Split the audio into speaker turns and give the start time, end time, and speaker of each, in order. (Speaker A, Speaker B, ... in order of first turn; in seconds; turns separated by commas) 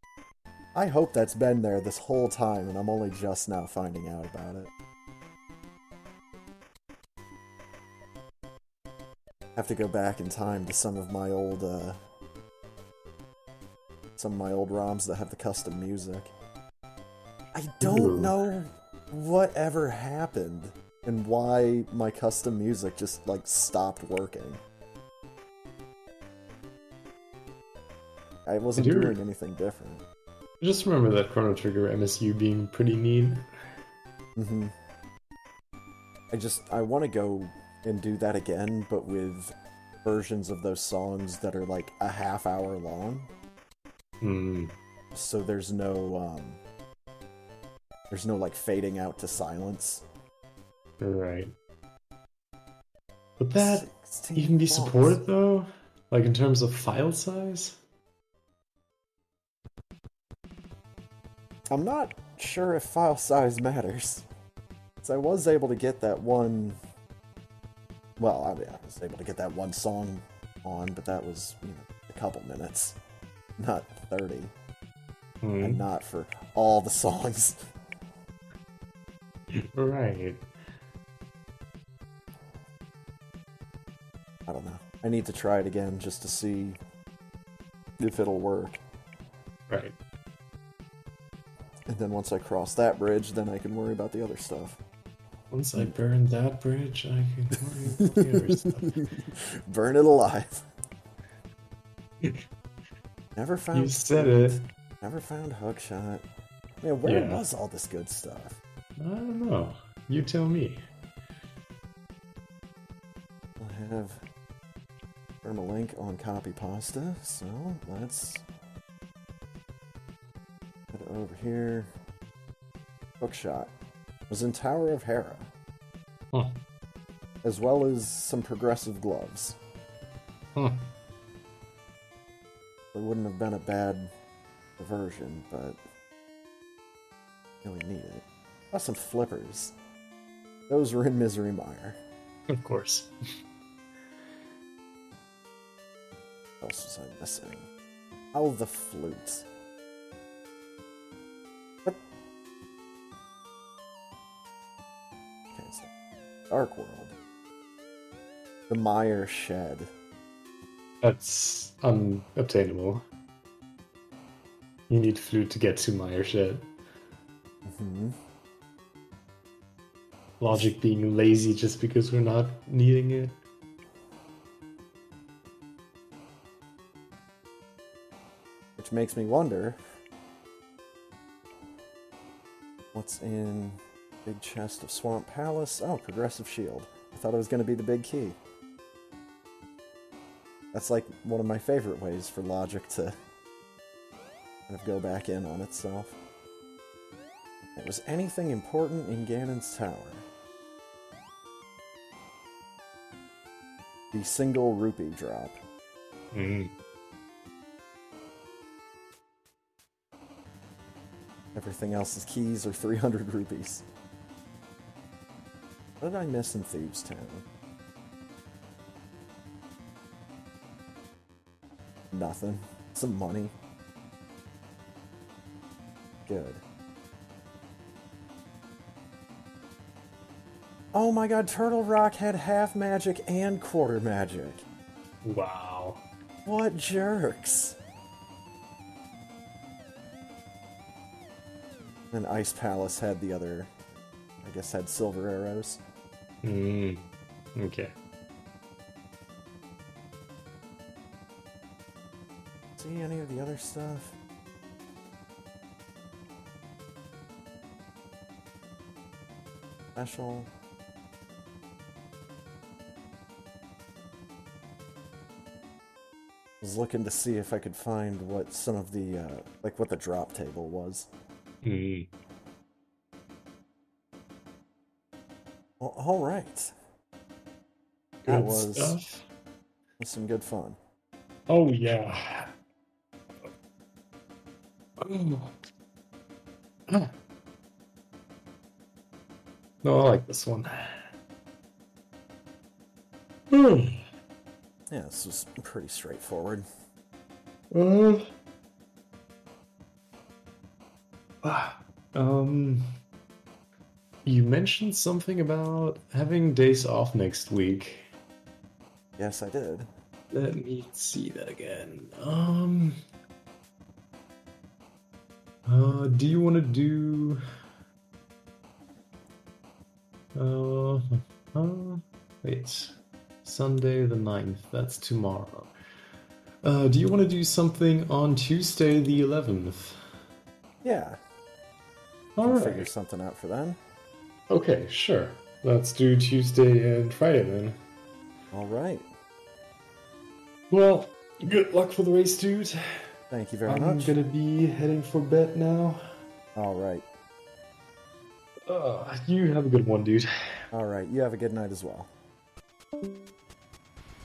Speaker A: 0.7-4.7, Speaker A: 9.6-12.0, Speaker A: 14.2-16.3, Speaker A: 17.5-24.6, Speaker B: 17.8-18.3, Speaker A: 28.4-30.0, Speaker B: 28.8-29.2, Speaker B: 30.6-33.5, Speaker A: 34.4-34.7, Speaker A: 36.3-43.3, Speaker B: 44.2-44.7, Speaker A: 45.1-46.6, Speaker A: 48.1-50.0, Speaker B: 51.0-51.5, Speaker B: 53.4-57.8, Speaker A: 53.5-55.2, Speaker A: 61.7-64.2, Speaker A: 65.0-66.8, Speaker A: 68.2-73.0, Speaker A: 73.6-74.5, Speaker B: 75.4-75.8, Speaker A: 75.6-77.7, Speaker B: 79.5-80.5, Speaker A: 84.5-86.8, Speaker A: 88.0-88.8, Speaker B: 89.7-90.0, Speaker A: 91.9-94.8, Speaker B: 95.5-99.1, Speaker A: 98.0-100.7, Speaker A: 103.3-106.2, Speaker B: 103.7-104.6, Speaker A: 106.8-108.6, Speaker B: 107.0-107.4, Speaker B: 109.0-110.8, Speaker A: 113.6-114.2, Speaker A: 115.4-118.4, Speaker A: 120.9-121.9, Speaker A: 123.2-123.7, Speaker A: 124.3-125.5, Speaker B: 126.3-126.6, Speaker A: 127.4-129.6, Speaker B: 130.6-130.9, Speaker A: 132.9-134.1, Speaker A: 134.8-135.8, Speaker A: 137.6-139.7, Speaker A: 140.7-142.0, Speaker B: 142.5-143.1, Speaker A: 146.6-147.7, Speaker A: 148.3-149.5, Speaker A: 155.5-155.9, Speaker A: 156.5-157.2, Speaker A: 158.7-159.9, Speaker B: 161.0-163.0, Speaker B: 164.9-166.7, Speaker A: 167.7-168.1, Speaker B: 170.4-173.4, Speaker A: 178.8-179.8, Speaker A: 182.9-188.4, Speaker A: 190.7-193.2, Speaker A: 194.7-196.2, Speaker A: 197.7-200.2, Speaker A: 204.1-205.6, Speaker B: 206.3-206.7, Speaker A: 211.5-213.8, Speaker A: 216.0-217.4, Speaker A: 222.1-223.5, Speaker A: 226.3-226.6, Speaker A: 230.9-234.6, Speaker B: 235.2-236.0, Speaker A: 236.4-237.8, Speaker A: 242.1-243.7, Speaker A: 244.4-245.8, Speaker B: 246.4-247.9, Speaker A: 252.8-254.2, Speaker A: 259.9-260.5, Speaker A: 266.6-271.1, Speaker B: 271.6-272.1, Speaker A: 275.8-276.7, Speaker B: 278.2-279.2, Speaker A: 278.3-279.0, Speaker A: 280.0-280.8, Speaker B: 281.5-282.5, Speaker B: 285.0-285.6, Speaker B: 286.9-287.1, Speaker B: 289.8-291.1, Speaker B: 293.5-294.1, Speaker A: 294.9-296.6, Speaker B: 297.7-298.3, Speaker B: 301.4-302.9, Speaker B: 304.2-308.1, Speaker A: 309.2-309.9, Speaker B: 310.3-313.0, Speaker B: 315.6-317.4, Speaker B: 320.3-325.7, Speaker B: 326.6-330.0, Speaker A: 330.8-331.2, Speaker B: 332.4-332.9, Speaker A: 332.4-333.8, Speaker B: 334.5-337.8, Speaker A: 338.5-339.1, Speaker B: 340.7-343.1, Speaker A: 343.3-344.2, Speaker B: 343.7-346.0, Speaker A: 346.5-347.0, Speaker B: 348.7-350.3, Speaker A: 350.7-352.1